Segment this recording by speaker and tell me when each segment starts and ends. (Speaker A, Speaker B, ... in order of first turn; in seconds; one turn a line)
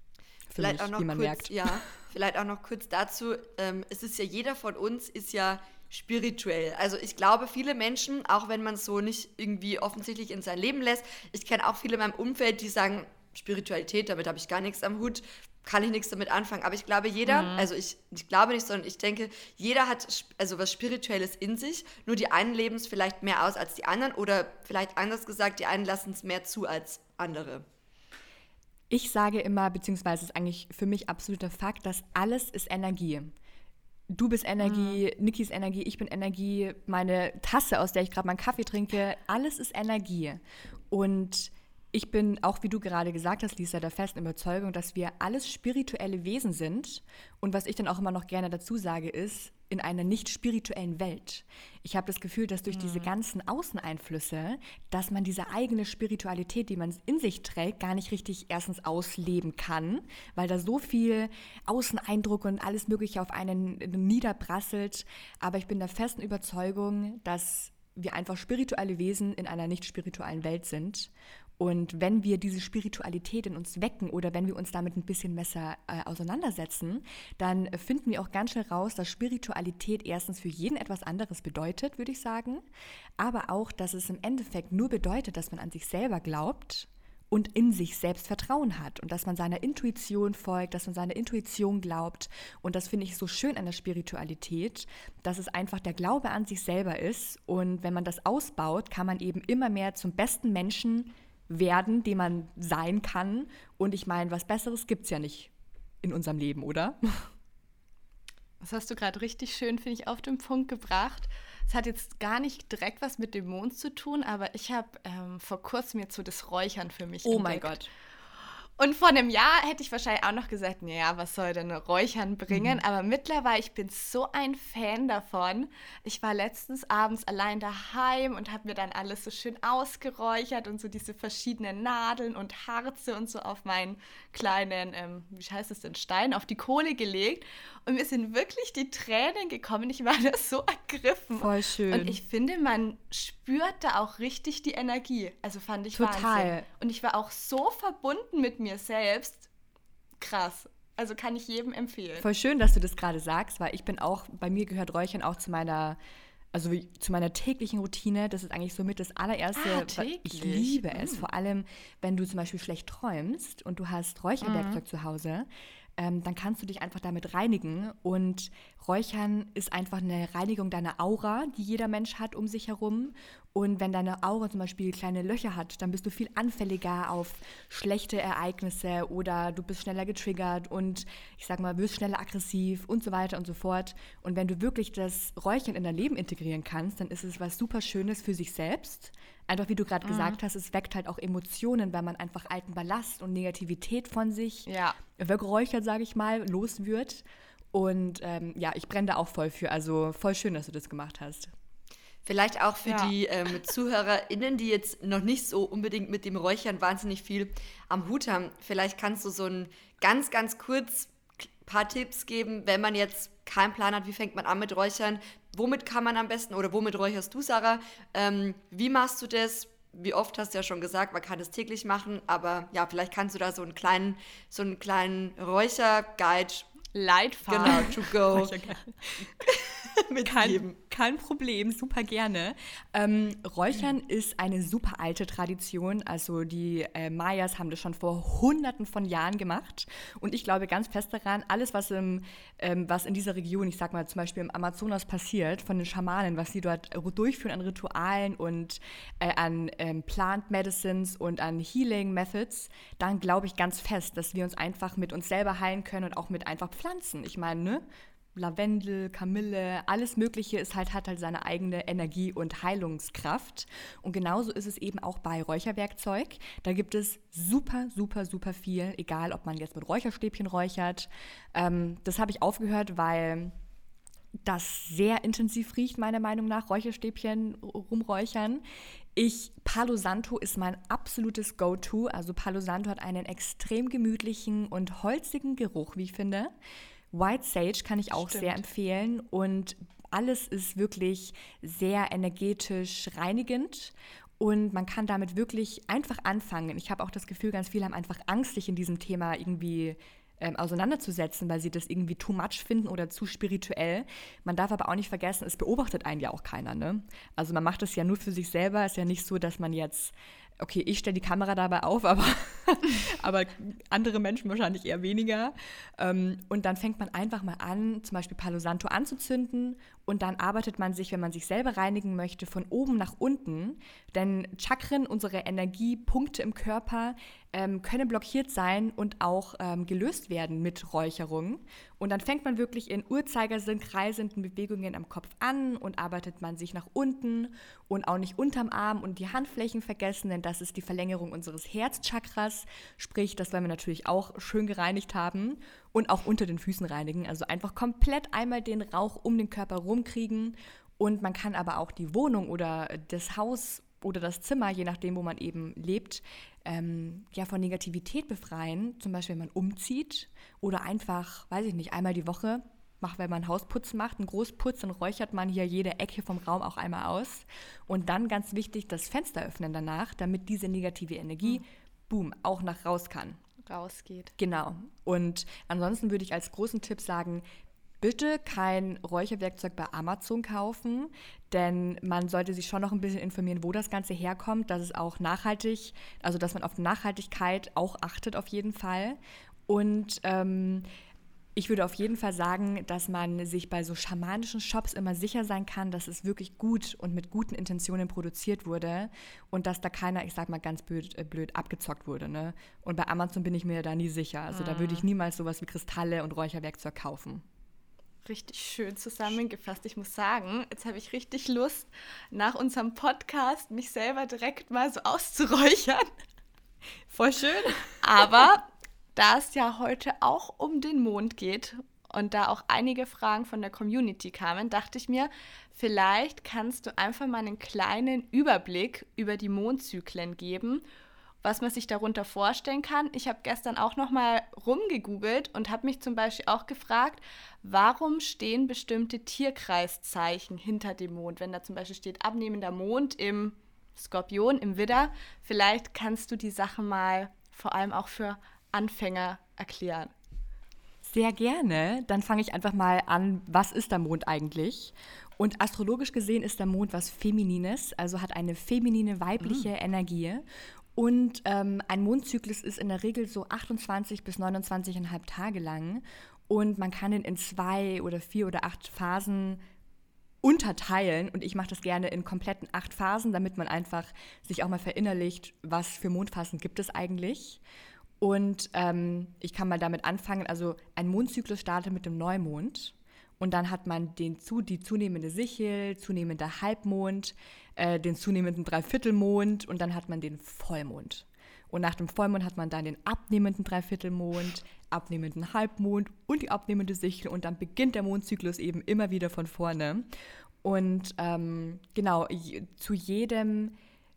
Speaker A: 0.5-1.8
Speaker B: 0.6-27.6
Speaker C: 17.3-17.7
Speaker A: 28.9-33.3
Speaker A: 34.1-82.7
Speaker C: 34.6-35.0
Speaker C: 52.7-53.1
Speaker A: 83.2-105.5
Speaker A: 106.0-107.3
Speaker C: 108.6-117.8
Speaker A: 117.2-117.9
Speaker C: 118.8-149.5
Speaker A: 141.4-142.2
Speaker A: 145.9-146.7
Speaker C: 150.2-152.3
Speaker A: 152.2-156.0
Speaker A: 156.5-201.5
Speaker C: 159.6-161.2
Speaker C: 164.4-164.8
Speaker C: 190.0-190.4
Speaker C: 194.7-195.0
Speaker B: 202.2-226.7
Speaker C: 202.8-203.1
Speaker C: 226.9-228.0
Speaker B: 227.5-228.6
Speaker A: 227.7-228.9
Speaker B: 229.6-230.8
Speaker A: 230.2-273.6
Speaker A: 274.4-278.6
Speaker A: 279.1-286.5
Speaker A: 287.1-373.4
Speaker C: 288.1-288.6
Speaker C: 373.7-374.3
Speaker A: 374.4-377.4
Speaker A: 378.0-390.9
Speaker A: 391.6-407.4
Speaker C: 404.5-405.1
Speaker C: 408.2-416.1
Speaker A: 417.1-417.9
Speaker C: 418.0-430.9
Speaker C: 431.4-450.1
Speaker A: 451.0-460.4
Speaker A: 461.0-469.6
Speaker A: 470.4-477.6
Speaker A: 478.2-500.1
Speaker A: 500.6-503.8